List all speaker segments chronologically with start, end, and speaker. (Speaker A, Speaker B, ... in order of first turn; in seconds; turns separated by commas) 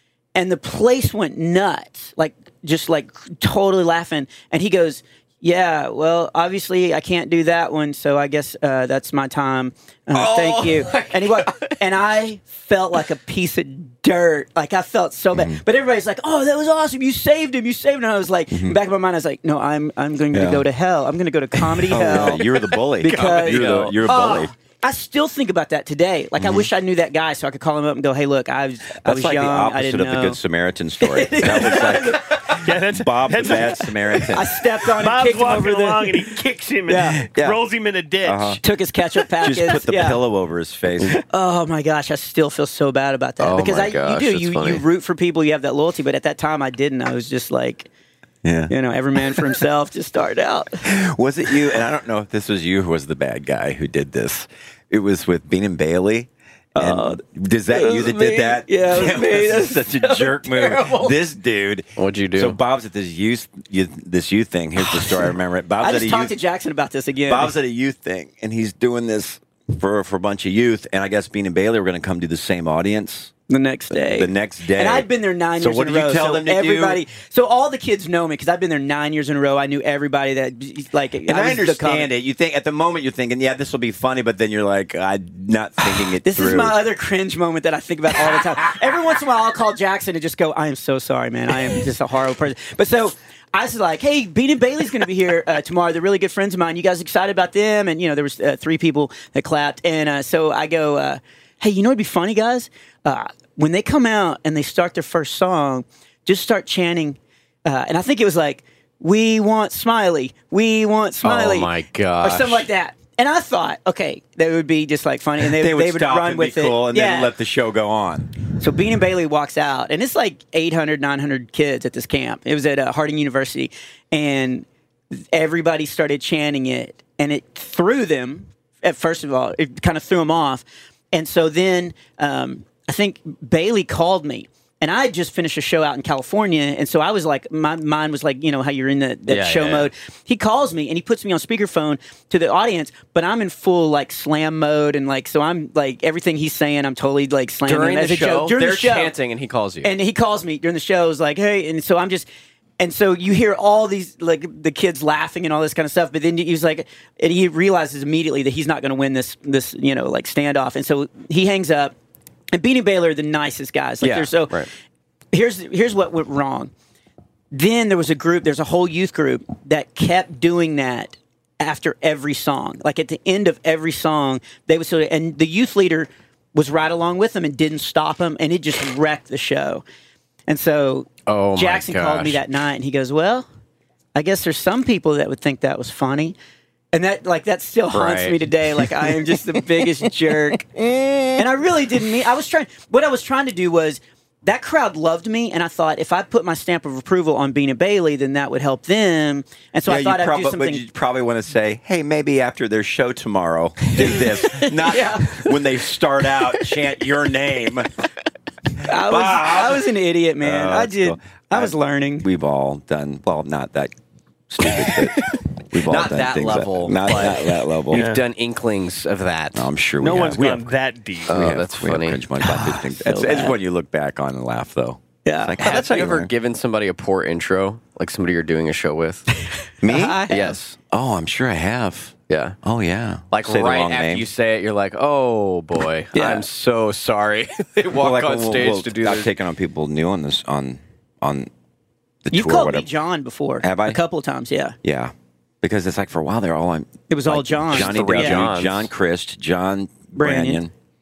Speaker A: 0.3-22.4, Speaker B: 10.2-11.7, Speaker C: 15.3-15.6, Speaker C: 18.5-18.8, Speaker C: 20.3-20.6, Speaker C: 21.8-24.5, Speaker A: 23.0-30.4, Speaker B: 23.1-24.0, Speaker C: 26.4-26.7, Speaker C: 29.0-34.6, Speaker A: 31.0-32.5, Speaker D: 32.6-34.3, Speaker A: 34.3-36.2, Speaker D: 35.0-38.6, Speaker A: 36.9-37.2, Speaker C: 37.3-37.6, Speaker C: 38.2-38.6, Speaker A: 38.6-40.2, Speaker C: 39.4-41.2, Speaker A: 41.3-47.9, Speaker B: 43.4-44.8, Speaker C: 48.4-48.7, Speaker A: 48.7-50.9, Speaker C: 50.9-66.4, Speaker A: 56.8-61.2, Speaker B: 62.0-62.6, Speaker A: 65.8-67.5, Speaker C: 67.3-73.3, Speaker A: 73.5-82.1, Speaker C: 73.9-77.0, Speaker C: 81.3-86.8, Speaker A: 86.2-117.3, Speaker B: 111.2-112.7, Speaker C: 115.4-118.4, Speaker A: 118.6-149.1, Speaker B: 139.3-139.9, Speaker B: 147.7-149.9, Speaker A: 149.8-152.3, Speaker A: 152.8-161.9, Speaker A: 162.5-164.7, Speaker B: 164.0-164.7, Speaker A: 165.3-166.7, Speaker A: 167.5-179.8, Speaker A: 180.5-183.5, Speaker B: 181.3-182.4, Speaker A: 184.2-186.4, Speaker A: 186.9-190.7, Speaker B: 187.9-188.9, Speaker A: 191.4-200.8, Speaker C: 199.9-207.9, Speaker A: 204.0-205.5, Speaker C: 208.8-209.9, Speaker A: 208.8-212.3, Speaker C: 210.4-213.9, Speaker C: 214.5-218.1, Speaker B: 215.8-219.7, Speaker D: 217.9-218.2, Speaker C: 219.5-220.7, Speaker D: 220.0-221.4, Speaker B: 221.3-222.2, Speaker C: 221.3-226.3, Speaker A: 222.4-223.6, Speaker A: 225.2-225.6, Speaker B: 225.6-229.3, Speaker C: 229.8-230.3, Speaker A: 229.9-230.6, Speaker B: 230.3-230.8, Speaker C: 230.9-234.3, Speaker B: 232.3-232.6, Speaker B: 233.3-239.3, Speaker A: 236.1-236.4, Speaker C: 237.9-241.5, Speaker C: 242.2-242.9, Speaker A: 242.3-244.8, Speaker C: 243.6-244.0, Speaker C: 244.8-250.7, Speaker A: 247.1-248.5, Speaker B: 247.7-248.9, Speaker A: 250.2-250.6